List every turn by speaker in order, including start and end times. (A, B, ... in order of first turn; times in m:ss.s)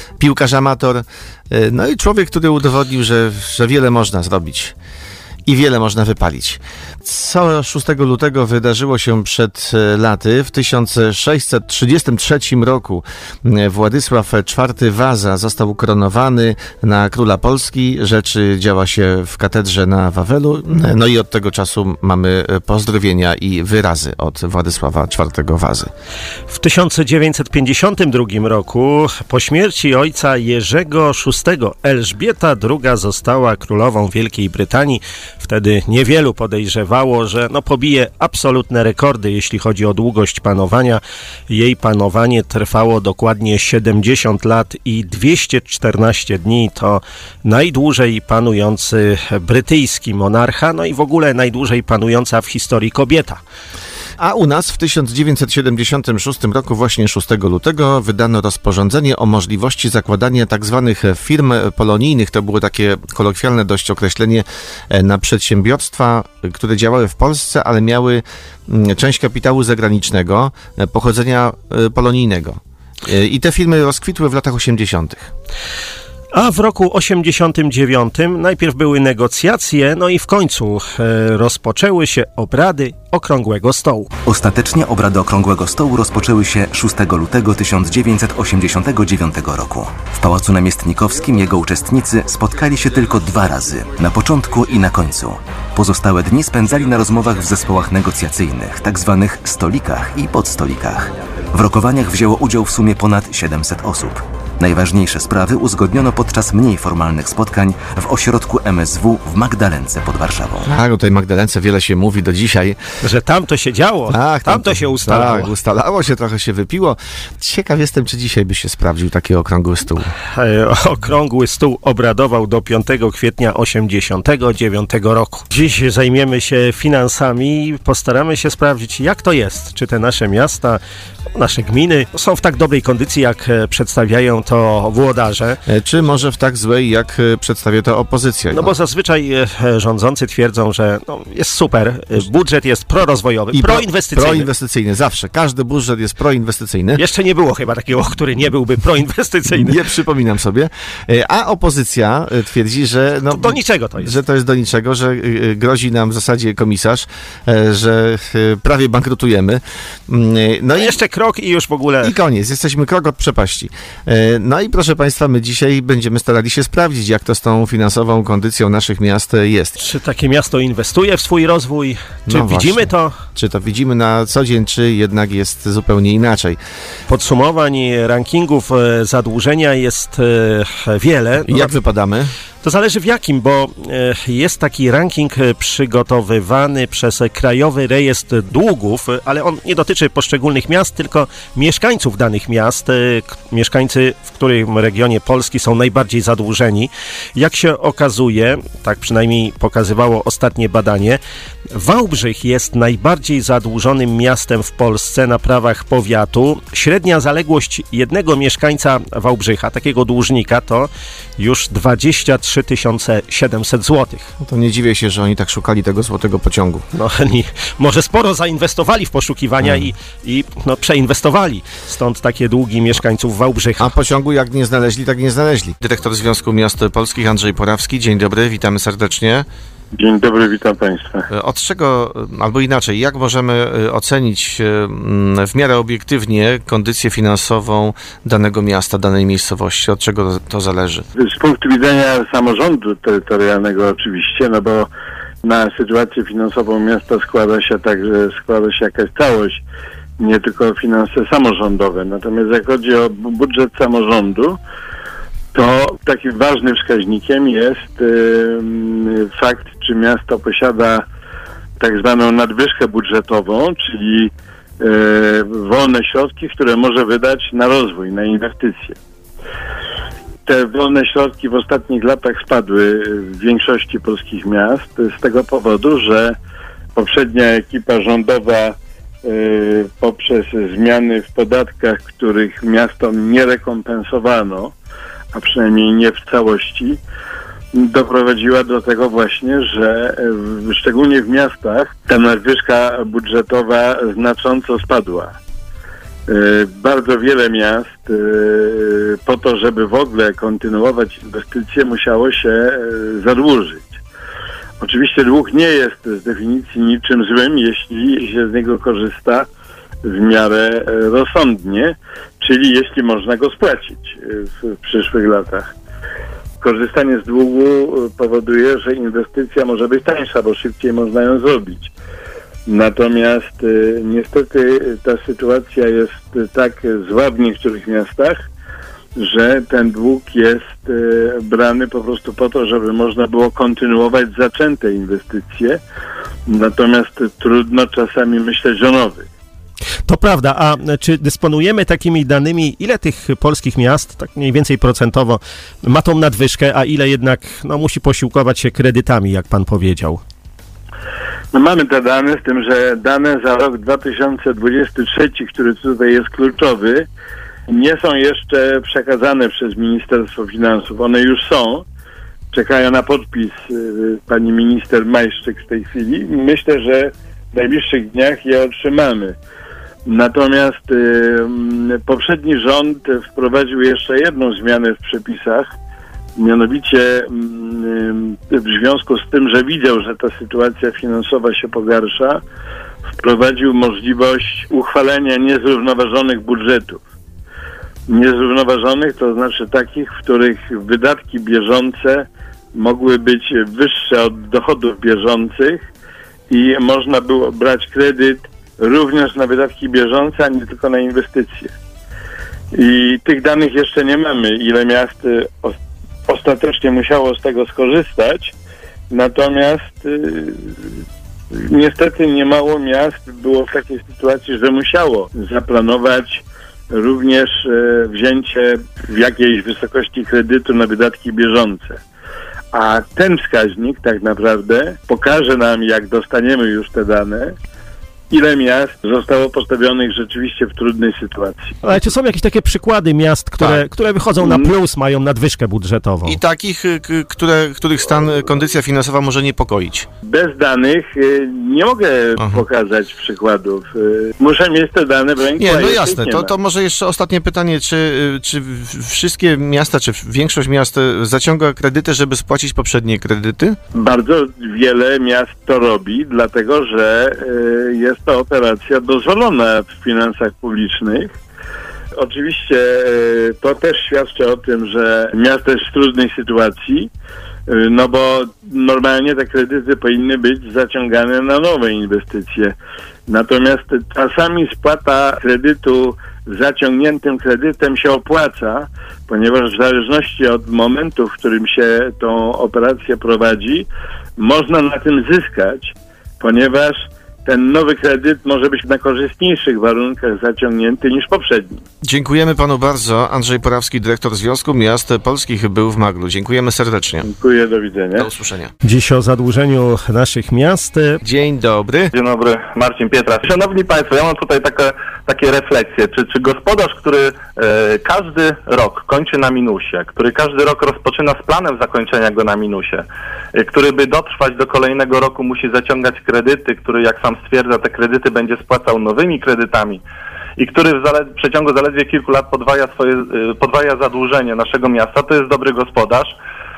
0:00.2-0:04.7 A
0:05.4-0:25.9 A
0:26.5-0:53.4 B
0:54.2-1:15.3 A
1:16.3-1:24.1 B
1:24.2-1:50.7 C
1:50.6-1:52.8 A
1:53.0-1:55.5 B
1:54.1-2:00.1 A
2:00.3-2:10.8 B
2:11.3-2:15.6 B
2:15.7-2:18.7 A
2:18.5-2:24.5 B
2:23.5-2:27.0 A
2:27.0-2:29.7 B
2:29.5-2:40.9 A
2:33.3-2:34.2 B
2:40.8-2:42.1 B
2:42.0-2:49.8 A
2:49.8-2:53.1 B
2:52.3-2:56.6 A
2:57.1-3:01.7 B
3:01.5-3:02.3 A
3:02.6-3:21.2 B
3:21.7-3:34.3 B
3:34.4-3:36.8 A
3:36.9-3:43.9 B
3:39.6-3:39.9 A
3:43.8-3:49.4 A
3:49.9-3:51.3 D
3:51.3-4:01.0 A
4:01.2-4:04.9 D
4:05.4-4:09.6 D
4:10.2-4:14.6 D
4:15.5-4:21.0 D
4:21.8-4:29.0 D
4:30.5-4:36.4 D
4:37.0-4:44.7 D
4:45.3-4:47.0 D
4:47.8-4:55.3 D
4:56.3-5:04.0 D
5:04.8-5:09.5 D
5:10.0-5:15.7 D
5:16.6-5:21.9 D
5:22.7-5:28.4 D
5:29.2-5:35.8 D
5:36.5-5:39.3 D
5:40.1-5:50.2 B
5:51.5-5:57.1 D
5:57.7-6:01.8 D
6:02.5-6:09.4 D
6:10.1-6:15.7 D
6:16.4-6:22.4 D
6:23.2-6:27.0 D
6:28.1-6:35.8 D
6:36.5-6:41.7 D
6:42.7-6:45.8 D
6:46.3-6:48.5 D
6:49.1-6:50.6 D
6:51.6-7:02.0 D
7:02.7-7:07.6 D
7:08.3-7:11.8 D
7:11.8-7:16.4 B
7:14.4-7:14.7 D
7:16.2-7:20.1 A
7:20.3-7:26.6 D
7:25.6-7:33.8 A
7:33.9-7:41.3 D
7:42.2-7:47.1 D
7:47.7-7:52.7 D
7:53.3-8:11.8 D
8:12.0-8:17.3 A
8:17.2-8:18.3 D
8:18.2-8:18.7 A
8:18.8-8:21.2 B
8:21.2-8:22.1 A
8:22.2-8:40.0 E
8:40.6-8:46.3 E